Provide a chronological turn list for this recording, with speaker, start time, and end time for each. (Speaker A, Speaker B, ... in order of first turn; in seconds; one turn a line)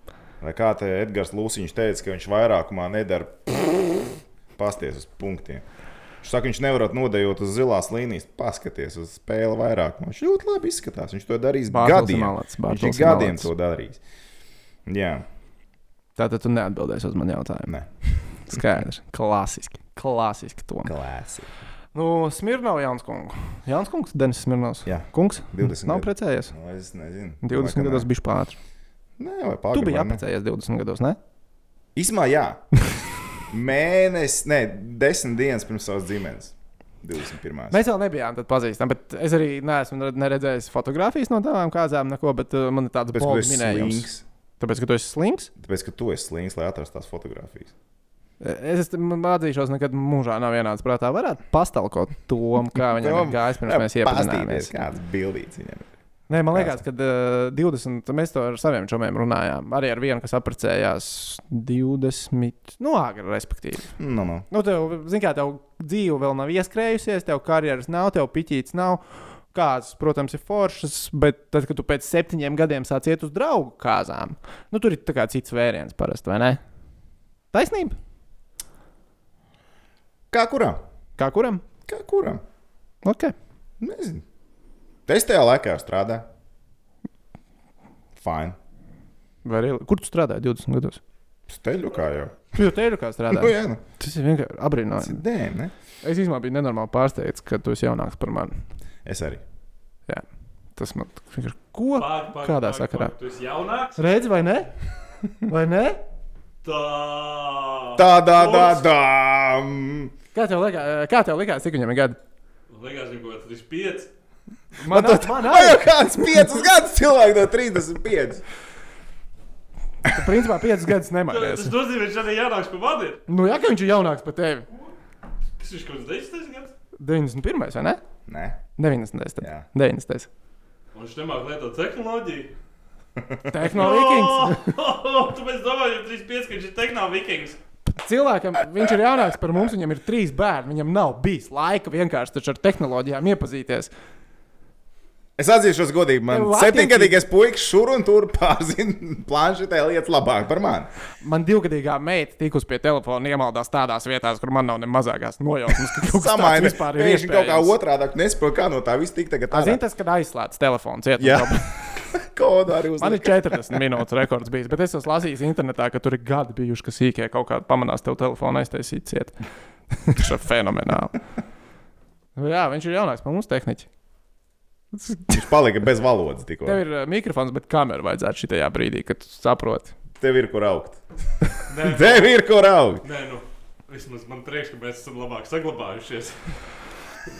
Speaker A: 0.4-5.6
Speaker A: 6.2-14.0
Speaker B: 11.7-13.5
Speaker A: 14.8-15.2
Speaker B: 16.1-17.7
Speaker B: 18.4-20.9
Speaker A: 20.8-21.5
Speaker B: 21.9-26.5
Speaker A: 24.8-28.1
Speaker B: 27.4-28.6
Speaker A: 29.2-30.2
Speaker B: 29.7-31.2
Speaker A: 31.9-32.6
Speaker A: 33.5-37.8
Speaker B: 37.7-44.1
Speaker A: 43.1-44.2
Speaker B: 44.6-45.5
Speaker A: 45.6-47.7
Speaker B: 48.4-54.7
Speaker A: 52.8-55.9
Speaker B: 56.3-64.0
Speaker A: 56.5-56.8
Speaker A: 64.0-64.5
Speaker B: 64.5-76.6
Speaker B: 77.5-78.0
Speaker A: 80.3-80.8
Speaker B: 81.2-81.6
Speaker A: 81.9-82.4
Speaker B: 83.0-83.3
Speaker A: 83.8-84.2
Speaker A: 85.1-86.3
Speaker A: 88.2-88.5
Speaker B: 89.4-91.0
Speaker A: 91.5-92.5
Speaker B: 92.5-95.2
Speaker A: 93.3-93.8
Speaker A: 95.0-95.7
Speaker B: 96.0-98.6
Speaker A: 99.0-99.4
Speaker B: 100.8-103.1
Speaker C: 102.0-104.0
Speaker B: 104.0-104.7
Speaker B: 105.4-106.0
Speaker C: 106.6-108.8
Speaker A: 108.0-110.1
Speaker B: 110.3-112.2
Speaker C: 112.7-114.1
Speaker B: 114.8-116.5
Speaker A: 114.8-118.4
Speaker B: 120.1-121.7
Speaker C: 121.3-123.2
Speaker B: 123.3-124.7
Speaker C: 125.6-126.7
Speaker B: 127.0-128.0
Speaker A: 128.3-128.6
Speaker B: 128.8-130.3
Speaker A: 129.4-129.7
Speaker C: 130.9-132.5
Speaker A: 133.2-133.7
Speaker B: 133.4-134.7
Speaker C: 133.7-137.6
Speaker B: 137.9-143.9
Speaker A: 145.4-150.9
Speaker B: 146.3-147.2
Speaker B: 151.2-157.8
Speaker A: 156.0-159.8
Speaker B: 159.5-162.0
Speaker A: 161.2-163.9
Speaker B: 163.0-169.3
Speaker B: 169.9-171.2
Speaker B: 172.3-173.9
Speaker B: 174.9-175.4
Speaker A: 175.3-176.8
Speaker B: 176.6-179.9
Speaker A: 180.2-181.0
Speaker A: 181.6-183.0
Speaker C: 181.7-182.3
Speaker C: 183.0-186.5